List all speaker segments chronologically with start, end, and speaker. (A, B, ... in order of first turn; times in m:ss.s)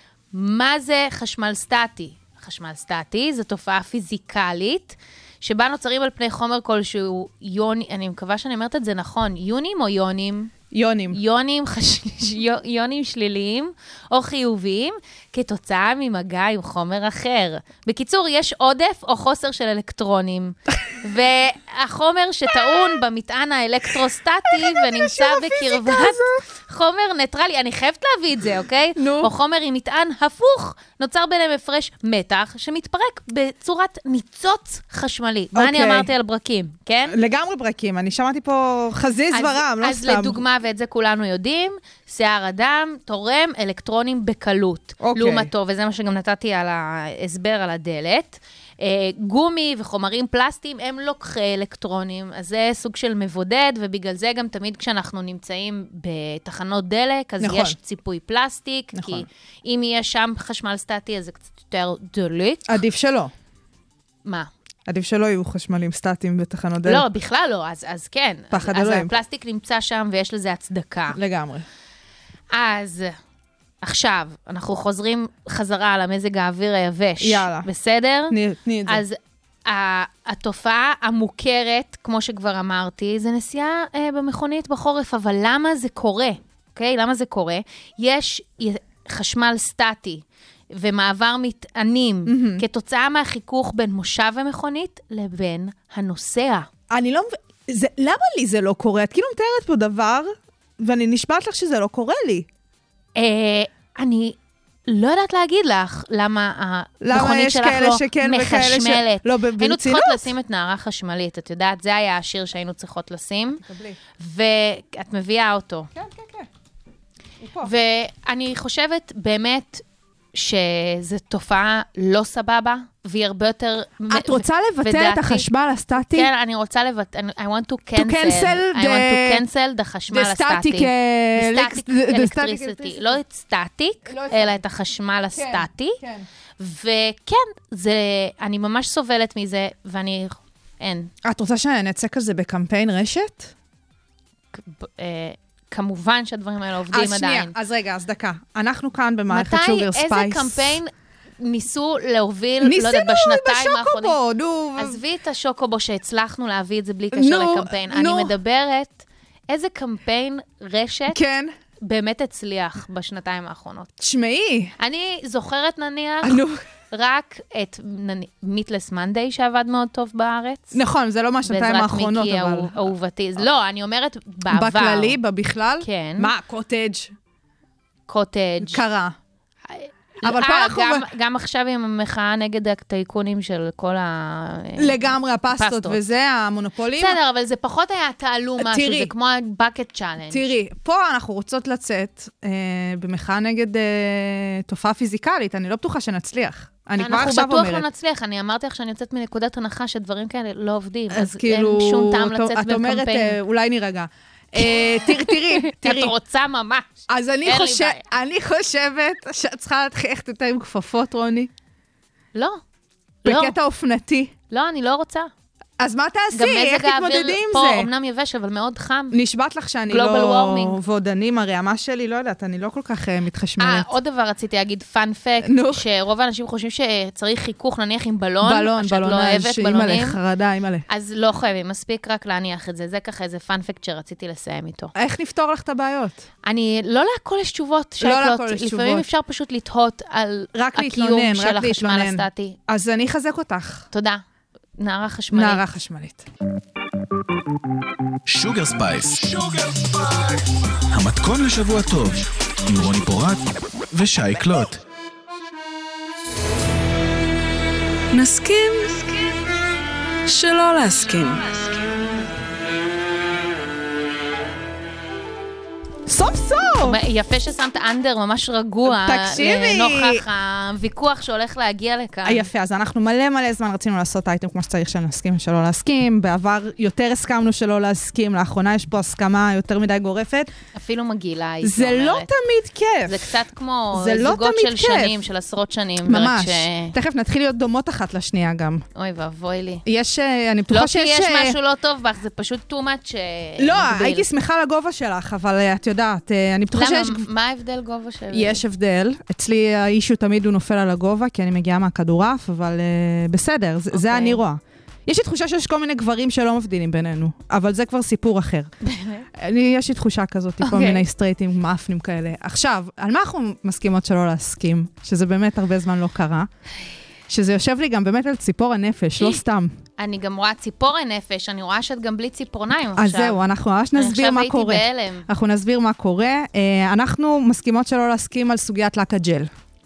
0:00.3-0:10.5 A
0:10.7-0:11.2 B
0:11.1-0:37.2 A
0:24.5-0:26.4 B
0:29.0-0:29.3 B
0:35.5-0:36.1 B
0:37.1-0:40.4 B
0:39.3-1:02.8 A
0:45.0-0:45.5 B
0:57.4-0:57.8 B
0:58.9-0:59.3 B
1:02.7-1:03.3 B
1:04.9-1:07.1 B
1:06.8-1:11.2 A
1:08.5-1:09.1 B
1:11.1-1:11.7 B
1:12.5-1:13.1 A
1:13.8-1:36.7 A
1:17.2-1:17.7 B
1:18.3-1:19.0 B
1:32.3-1:32.6 B
1:36.9-1:42.5 B
1:43.2-1:53.6 A
1:47.0-1:50.3 B
1:53.6-1:54.0 B
1:54.2-1:55.9 A
1:55.9-1:56.5 B
1:57.4-1:57.7 B
1:57.6-2:16.0 A
2:04.1-2:06.3 B
2:08.0-2:09.4 B
2:10.1-2:13.2 B
2:14.1-2:14.6 B
2:15.3-2:16.3 B
2:16.6-2:21.1 A
2:21.2-2:23.5 B
2:24.5-2:27.5 A
2:26.9-2:30.8 B
2:29.3-2:34.2 A
2:32.6-2:35.0 B
2:34.8-2:41.2 A
2:37.1-2:38.3 B
2:41.1-2:41.5 B
2:41.8-2:43.9 A
2:44.0-2:44.7 B
2:44.8-2:50.8 A
2:46.2-2:46.6 B
2:50.7-2:52.8 B
2:51.5-2:55.2 A
2:54.5-2:57.1 B
2:55.8-2:56.3 A
2:58.1-2:58.8 A
2:58.6-2:59.2 B
2:59.7-3:06.0 A
3:00.2-3:01.1 B
3:04.8-3:07.2 B
3:07.0-3:10.5 A
3:08.6-3:09.1 B
3:10.3-3:17.8 B
3:17.0-3:23.4 A
3:21.1-3:26.2 B
3:24.6-3:28.0 A
3:27.1-3:31.5 B
3:32.3-3:32.6 A
3:33.2-3:33.6 A
3:33.2-3:34.3 B
3:34.5-3:35.3 A
3:35.8-3:37.9 B
3:36.3-3:39.2 A
3:39.1-3:43.9 B
3:39.9-3:40.8 A
3:43.6-3:50.2 A
3:45.4-3:45.8 B
3:48.4-3:50.8 B
3:50.9-3:54.9 A
3:55.0-3:56.2 B
3:56.4-4:02.6 A
3:58.0-3:59.1 B
4:00.5-4:03.9 B
4:03.9-4:04.2 A
4:04.8-4:05.6 A
4:05.3-4:06.2 B
4:08.3-4:10.4 C
4:10.9-4:14.8 C
4:18.1-4:19.2 B
4:20.3-4:21.8 B
4:26.1-4:27.0 B
4:26.8-4:32.5 A
4:28.8-4:30.2 B
4:32.2-4:40.5 B
4:40.8-4:42.3 A
4:41.6-4:43.4 B
4:43.0-4:47.0 A
4:43.9-4:45.2 B
4:46.0-4:48.8 B
4:49.0-4:49.8 A
4:49.8-4:51.6 B
4:50.7-4:54.3 A
4:53.6-4:57.3 B
4:56.7-4:58.6 A
4:58.3-5:08.7 B
5:03.9-5:04.4 A
5:08.8-5:09.3 A
5:09.3-5:16.5 B
5:10.6-5:11.0 A
5:17.3-5:19.8 B
5:20.0-5:23.4 A
5:23.0-5:29.5 B
5:24.0-5:25.3 A